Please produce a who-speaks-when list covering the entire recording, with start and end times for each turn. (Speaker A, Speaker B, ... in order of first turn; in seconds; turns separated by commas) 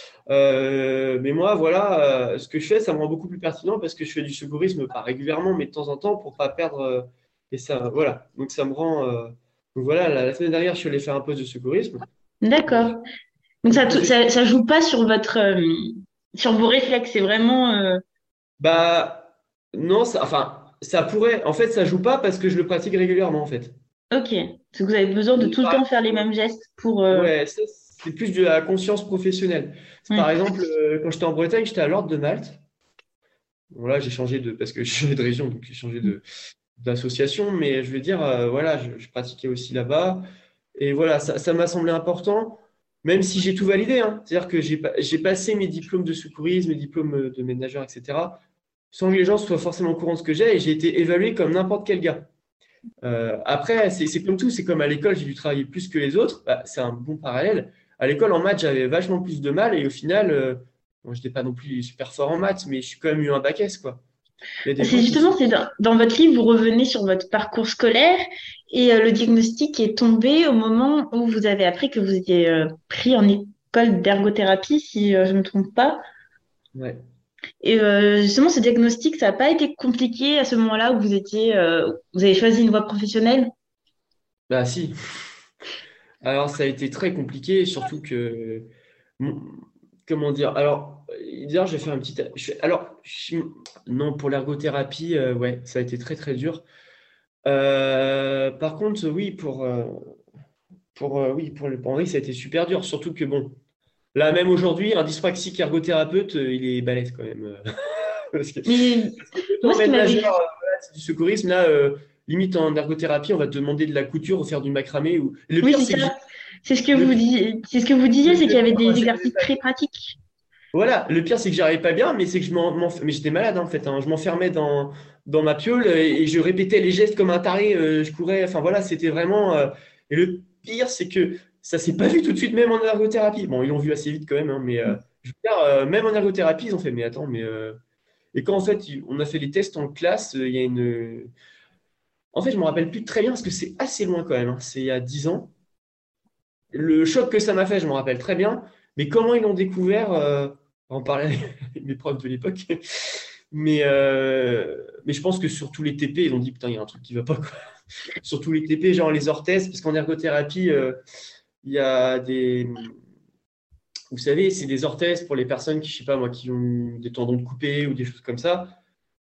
Speaker A: 0.3-12.1, Speaker B: 12.4-13.0, Speaker A: 12.7-12.9, Speaker B: 13.6-18.0, Speaker A: 13.7-14.2, Speaker A: 18.6-23.7, Speaker B: 24.1-27.3, Speaker A: 25.4-26.2, Speaker A: 27.1-32.6, Speaker A: 33.7-36.2, Speaker A: 36.8-40.2, Speaker A: 40.8-48.4, Speaker A: 48.9-52.3, Speaker A: 53.0-64.0, Speaker A: 64.6-65.5, Speaker B: 64.8-76.0, Speaker A: 76.8-77.0, Speaker B: 77.6-83.5, Speaker A: 84.5-84.9, Speaker A: 86.2-96.7, Speaker A: 97.5-100.0, Speaker A: 100.9-103.6, Speaker A: 104.2-116.2, Speaker B: 108.7-110.3, Speaker B: 115.6-116.2, Speaker B: 116.7-120.2, Speaker A: 118.2-119.6, Speaker A: 120.7-137.8, Speaker A: 138.3-141.3, Speaker A: 142.3-145.5, Speaker A: 146.7-161.0, Speaker A: 161.6-162.9, Speaker A: 164.1-168.8